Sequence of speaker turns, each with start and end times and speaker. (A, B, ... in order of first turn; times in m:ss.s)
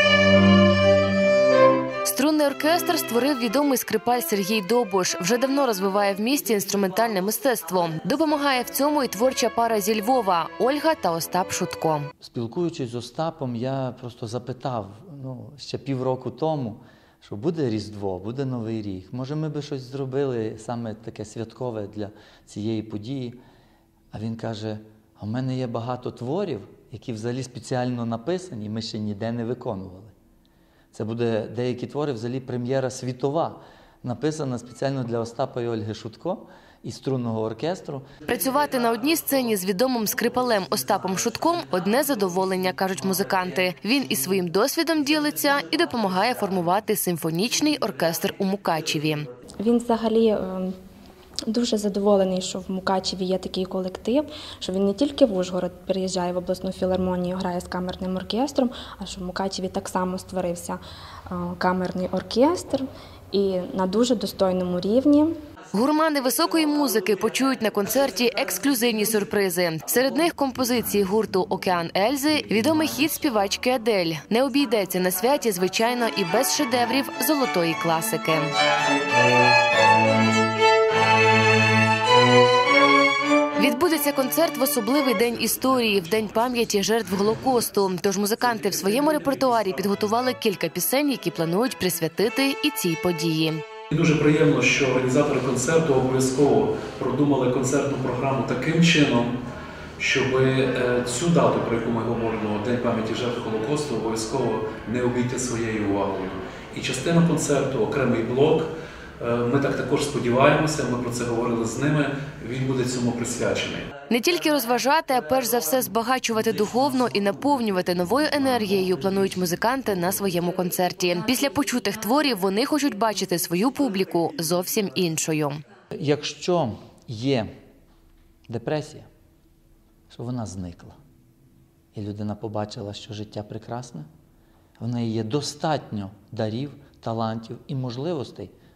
0:02.0-0:12.1 A
0:12.2-0:23.4 B
0:24.1-0:30.1 B
0:30.9-0:38.1 B
0:38.2-0:49.2 A
0:49.6-0:50.7 C
0:51.5-1:05.3 C
1:05.7-1:18.5 A
1:23.6-1:33.6 A
1:28.6-1:29.5 D
1:33.9-1:39.3 D
1:40.0-1:53.9 D
1:54.1-2:05.6 A
2:05.9-2:07.5 B
2:08.5-2:09.1 B
2:10.1-2:11.0 B
2:11.9-2:14.1 B
2:14.8-2:18.5 B